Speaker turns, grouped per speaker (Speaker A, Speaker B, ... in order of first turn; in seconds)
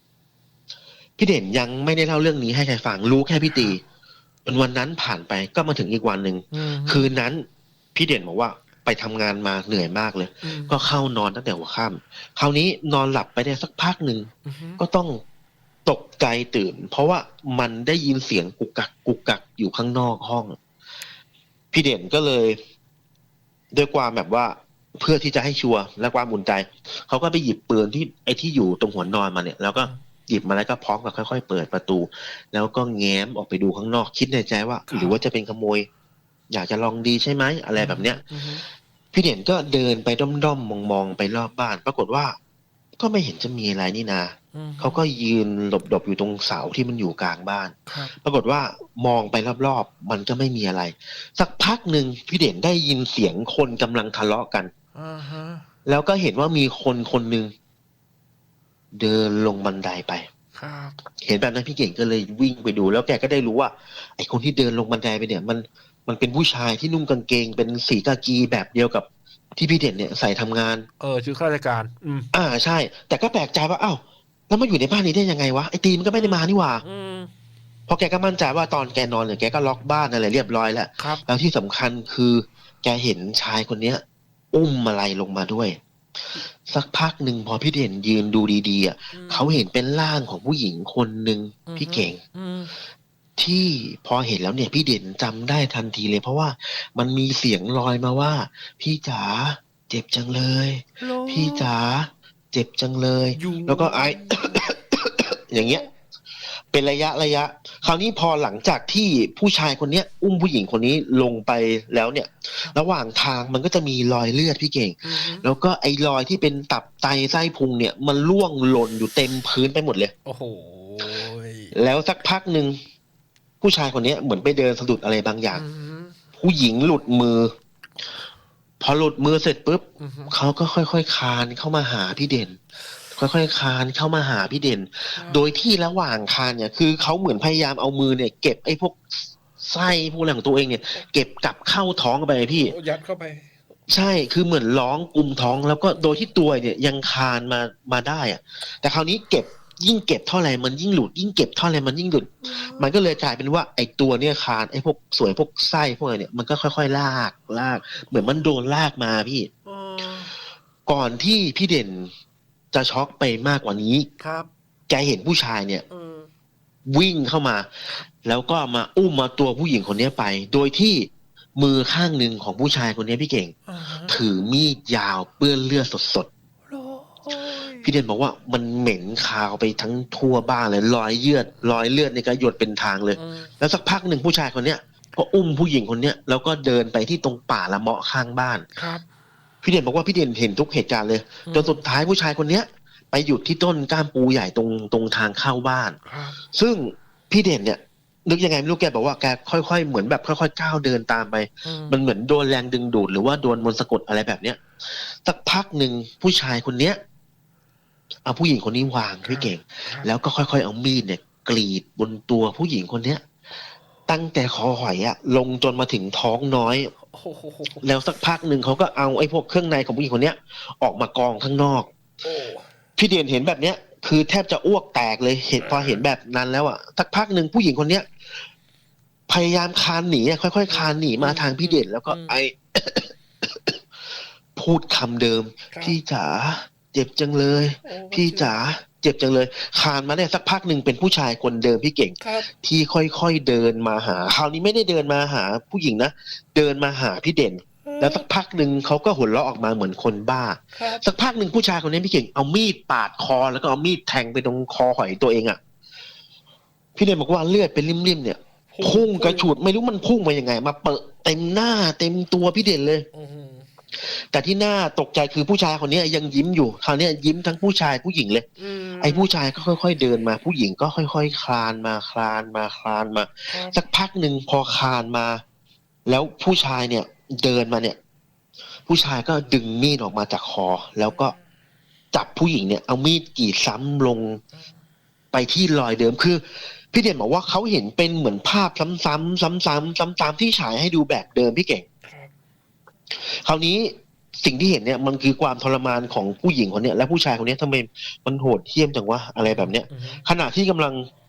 Speaker A: 1.2-3.8, 4.5-15.2, 15.9-20.6, 21.7-22.6, 23.7-35.9, 36.5-38.2, 39.1-42.4, 43.0-54.7, 55.9-57.5, 59.0-60.3, 61.2-70.9, 72.3-76.8, 77.9-85.8, 86.7-92.2, 93.4-105.9, 106.5-120.1, 121.7-122.8, 123.6-125.6, 126.4-127.5, 128.8-132.6, 133.1-139.0, 139.6-142.8, 143.9-159.5, 160.9-162.1, 162.7-164.1, 164.9-165.9, 166.9-173.6, 174.1-176.3, 177.8-188.7, 189.6-196.0, 196.5-207.0, 208.3-213.2, 214.1-216.9, 217.8-221.9, 223.0-228.1, 229.3-233.8, 234.6-255.6, 257.0-263.1, 263.9-268.5, 269.0-275.4, 276.1-278.0, 278.9-281.3, 282.1-284.4, 285.3-291.9, 293.1-301.1
Speaker B: 3.5-3.8, 6.5-7.1, 10.4-10.8, 14.5-14.8, 34.9-35.2, 37.8-38.6, 44.5-45.0, 47.9-48.1, 55.0-55.7, 60.5-61.0, 71.0-72.3, 76.1-77.3, 81.0-81.2, 89.1-89.6, 91.7-92.8, 101.0-101.7, 103.4-104.7, 115.0-115.5, 120.3-121.7, 125.5-126.2, 130.0-130.3, 135.2-135.5, 142.5-143.5, 152.4-152.9, 159.7-160.4, 164.2-164.5, 165.9-166.3, 173.7-174.2, 176.7-177.9, 183.2-183.5, 188.8-189.1, 191.5-191.8, 196.1-196.4, 201.6-202.0, 209.3-210.1, 217.1-217.9, 222.2-222.7, 225.6-226.0, 230.7-232.4, 235.7-236.0, 237.8-238.6, 242.2-242.5, 247.8-248.3, 250.8-251.1, 258.7-259.5, 263.1-263.7, 268.6-269.3, 273.5-273.8, 292.0-292.3, 299.4-300.2